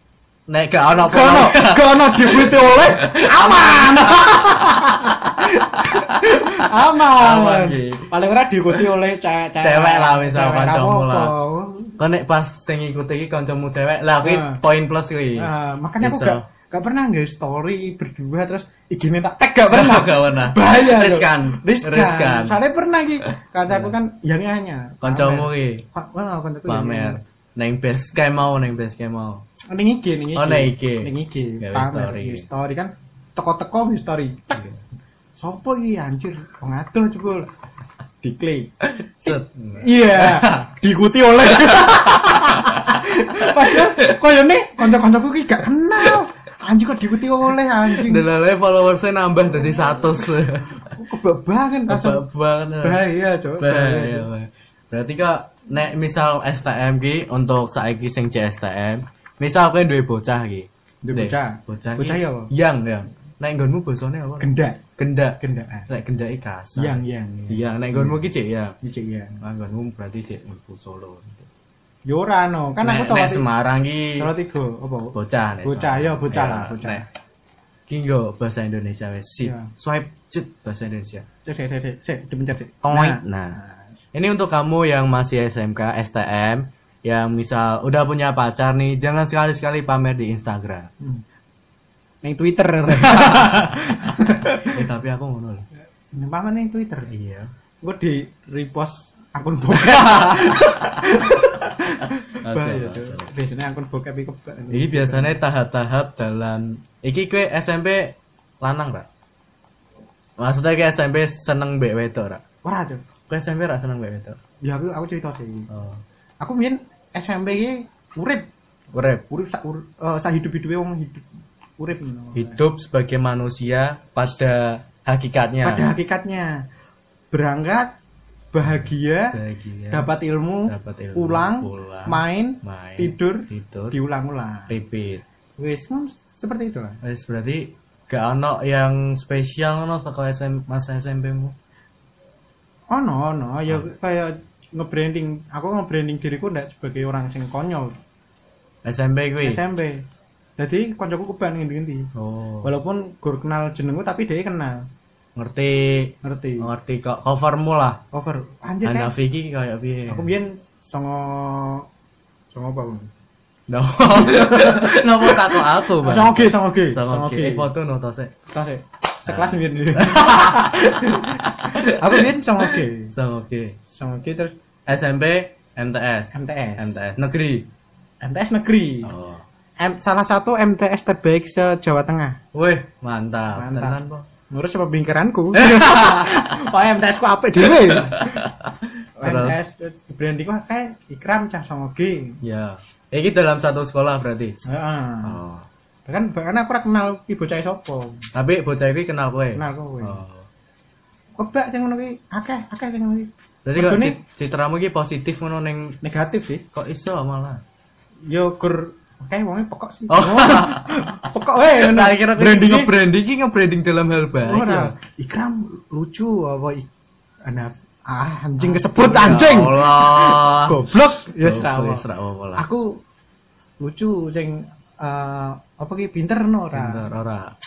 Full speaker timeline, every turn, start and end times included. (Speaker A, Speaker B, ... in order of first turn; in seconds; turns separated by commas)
Speaker A: 0.5-4.7, Speaker B: 0.9-12.0, Speaker A: 6.0-8.1, Speaker A: 9.6-11.3, Speaker A: 12.0-15.5, Speaker B: 14.2-14.6, Speaker B: 15.4-27.2, Speaker A: 16.0-16.4, Speaker A: 19.7-22.6, Speaker A: 23.7-23.9, Speaker A: 25.0-25.8, Speaker A: 26.7-29.4, Speaker B: 29.7-34.7, Speaker A: 30.3-32.5, Speaker B: 35.4-37.5, Speaker B: 38.2-48.3, Speaker A: 38.8-40.7, Speaker A: 41.7-42.8, Speaker A: 43.4-44.2, Speaker A: 47.9-50.9, Speaker B: 49.8-50.2, Speaker B: 50.9-52.2, Speaker A: 51.9-53.0, Speaker B: 52.8-54.3, Speaker A: 53.6-68.8, Speaker B: 61.0-62.5, Speaker B: 64.4-64.8, Speaker B: 65.4-65.9, Speaker B: 66.8-68.2, Speaker B: 68.8-69.4, Speaker A: 69.4-71.5, Speaker B: 72.1-73.5, Speaker A: 72.8-74.3, Speaker B: 74.2-77.0, Speaker A: 75.1-77.0, Speaker A: 77.9-81.2, Speaker B: 79.4-79.7, Speaker B: 81.5-83.8, Speaker A: 82.8-83.6, Speaker A: 84.1-90.9, Speaker B: 92.2-94.8, Speaker A: 92.9-93.6, Speaker A: 94.5-95.7, Speaker B: 96.1-97.1, Speaker A: 97.1-97.5, Speaker B: 97.8-105.4, Speaker A: 99.8-100.8, Speaker A: 102.4-103.3, Speaker A: 104.7-109.1, Speaker A: 110.4-112.4, Speaker B: 112.6-113.0, Speaker A: 113.3-114.4, Speaker B: 114.6-115.7, Speaker A: 115.7-116.0, Speaker B: 116.4-118.5, Speaker A: 118.9-119.2, Speaker B: 119.3-121.3, Speaker B: 121.8-122.6, Speaker A: 122.3-125.8, Speaker B: 125.6-126.6, Speaker B: 127.3-127.9, Speaker B: 128.5-129.4, Speaker A: 129.3-130.1, Speaker B: 129.9-134.7, Speaker A: 130.7-134.0, Speaker A: 134.7-135.2, Speaker B: 135.6-137.0, Speaker A: 137.0-141.5, Speaker B: 142.9-147.9, Speaker A: 148.8-149.6, Speaker B: 149.4-150.0, Speaker B: 150.6-152.1, Speaker A: 152.1-152.7, Speaker B: 152.6-154.9, Speaker A: 155.3-158.0, Speaker B: 156.2-156.7, Speaker B: 158.1-159.1, Speaker A: 158.8-160.3, Speaker B: 160.1-161.9, Speaker B: 162.5-163.1, Speaker A: 163.7-168.3, Speaker B: 164.1-167.7, Speaker B: 168.5-173.1, Speaker A: 169.3-173.8, Speaker B: 173.9-174.5, Speaker A: 174.9-177.7, Speaker B: 176.3-177.0, Speaker B: 178.2-179.1, Speaker A: 179.0-179.4, Speaker B: 179.8-182.4, Speaker A: 182.5-184.2, Speaker B: 183.5-188.5, Speaker A: 185.5-186.4, Speaker A: 187.6-189.6, Speaker B: 189.2-192.4, Speaker A: 192.4-194.5, Speaker B: 194.6-195.4, Speaker A: 195.2-195.7, Speaker B: 196.1-198.2, Speaker A: 198.3-200.4, Speaker B: 199.5-200.2, Speaker B: 201.4-204.2, Speaker A: 203.6-206.0, Speaker B: 206.0-206.6, Speaker A: 206.7-207.6, Speaker B: 208.2-212.9, Speaker A: 210.1-211.0, Speaker A: 211.6-214.9, Speaker B: 214.4-216.9, Speaker B: 217.4-222.0, Speaker A: 218.6-222.6, Speaker B: 222.6-223.0, Speaker B: 223.8-227.1, Speaker A: 226.7-227.5